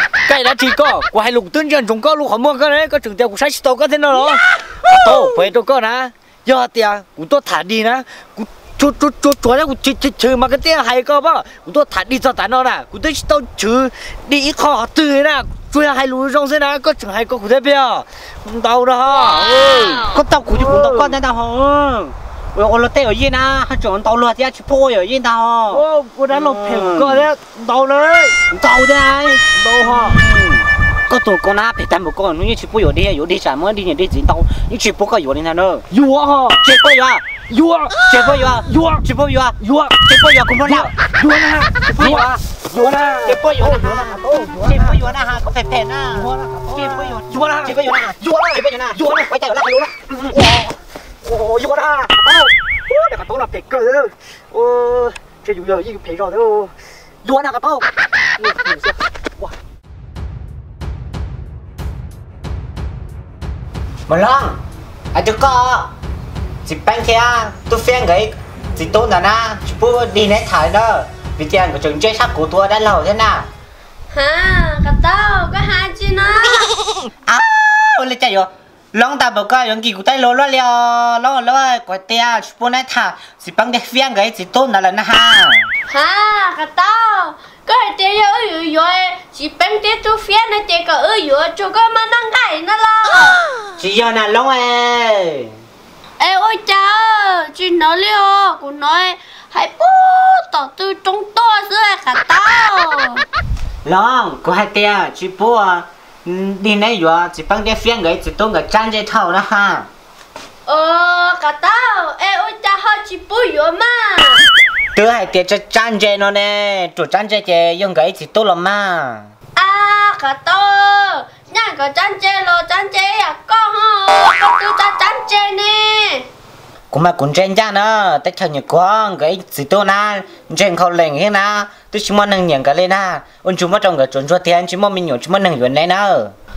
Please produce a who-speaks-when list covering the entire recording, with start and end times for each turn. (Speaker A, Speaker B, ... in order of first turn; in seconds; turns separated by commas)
Speaker A: 0.2-21.2, Speaker B: 19.3-27.3, Speaker A: 25.7-28.4, Speaker B: 28.5-35.9, Speaker A: 29.5-30.2, Speaker A: 35.9-36.6, Speaker B: 36.6-37.3, Speaker A: 37.5-45.0, Speaker B: 38.1-40.9, Speaker B: 41.9-42.4, Speaker B: 43.2-50.3, Speaker A: 46.1-57.9, Speaker A: 58.4-59.5, Speaker B: 64.1-64.6, Speaker B: 65.1-65.9, Speaker B: 66.6-73.5, Speaker C: 74.1-76.7, Speaker B: 77.3-85.7, Speaker C: 85.9-93.4, Speaker B: 93.8-95.5, Speaker C: 96.2-103.2, Speaker B: 103.8-109.9, Speaker C: 110.7-114.4, Speaker B: 114.9-119.3, Speaker C: 119.5-126.2, Speaker B: 126.9-136.3